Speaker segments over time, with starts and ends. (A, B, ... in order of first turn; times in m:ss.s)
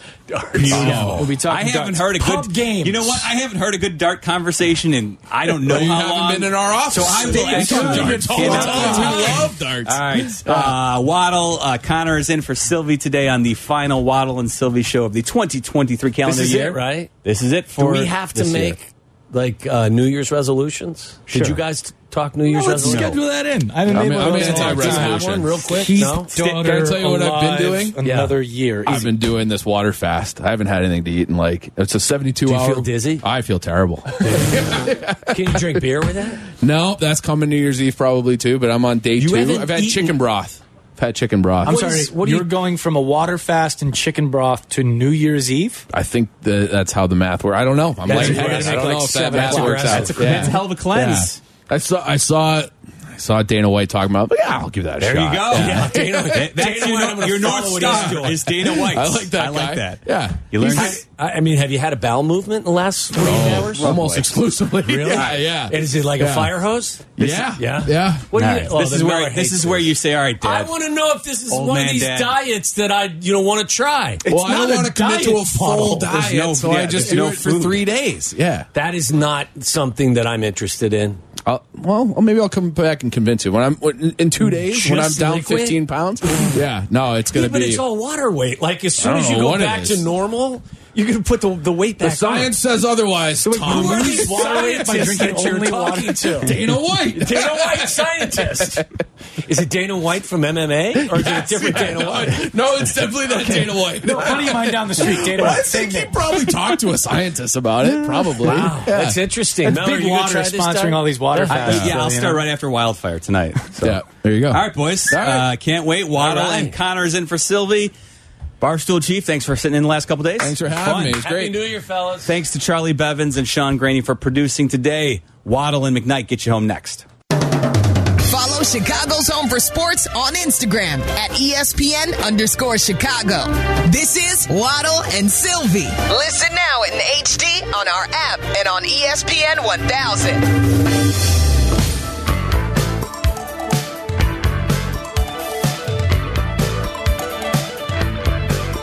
0:00.3-0:01.2 A
0:00.6-0:18.8 B
0:00.6-0:03.3 C
0:00.6-0:01.3 D
0:05.5-0:10.7 D
0:06.9-0:09.5 C
0:07.9-0:09.4 A
0:16.2-0:17.1 A
0:17.8-0:23.2 A
0:21.3-0:21.6 C
0:22.5-0:29.2 C
0:23.9-0:25.6 D
0:24.0-0:26.3 A
0:26.3-0:28.0 D
0:28.0-0:28.3 A
0:28.8-0:35.8 D
0:32.4-0:33.2 A
0:34.3-0:34.7 A
0:35.3-0:36.4 A
0:36.5-0:41.8 D
0:39.2-0:40.1 A
0:41.6-0:42.5 A
0:41.6-0:45.9 C
0:45.9-0:56.7 D
0:48.0-0:50.6 A
0:48.1-0:50.2 C
0:49.8-0:51.4 B
0:55.0-1:01.0 B
0:55.5-0:58.6 A
0:57.7-1:01.0 D
1:00.6-1:04.1 A
1:03.2-1:06.6 D
1:03.4-1:04.3 B
1:04.8-1:14.2 A
1:05.1-1:05.3 B
1:07.2-1:08.7 D
1:08.3-1:10.7 B
1:11.5-1:12.4 B
1:14.2-1:16.0 C
1:14.2-1:18.7 D
1:16.0-1:17.9 B
1:18.7-1:21.2 A
1:21.4-1:27.8 D
1:24.5-1:26.5 A
1:27.3-1:32.5 A
1:29.0-1:30.1 D
1:32.0-1:35.2 D
1:33.4-1:36.6 C
1:33.6-1:38.9 A
1:36.4-1:38.8 D
1:39.4-1:42.5 A
1:41.0-1:49.2 D
1:44.0-1:46.4 C
1:48.4-1:51.9 A
1:49.6-1:52.4 C
1:51.5-1:57.9 B
1:51.7-1:51.9 D
1:53.8-1:55.5 D
1:56.1-1:56.8 A
1:58.6-2:01.2 B
2:00.4-2:01.6 D
2:01.1-2:02.3 A
2:02.2-2:07.0 B
2:08.2-2:20.5 E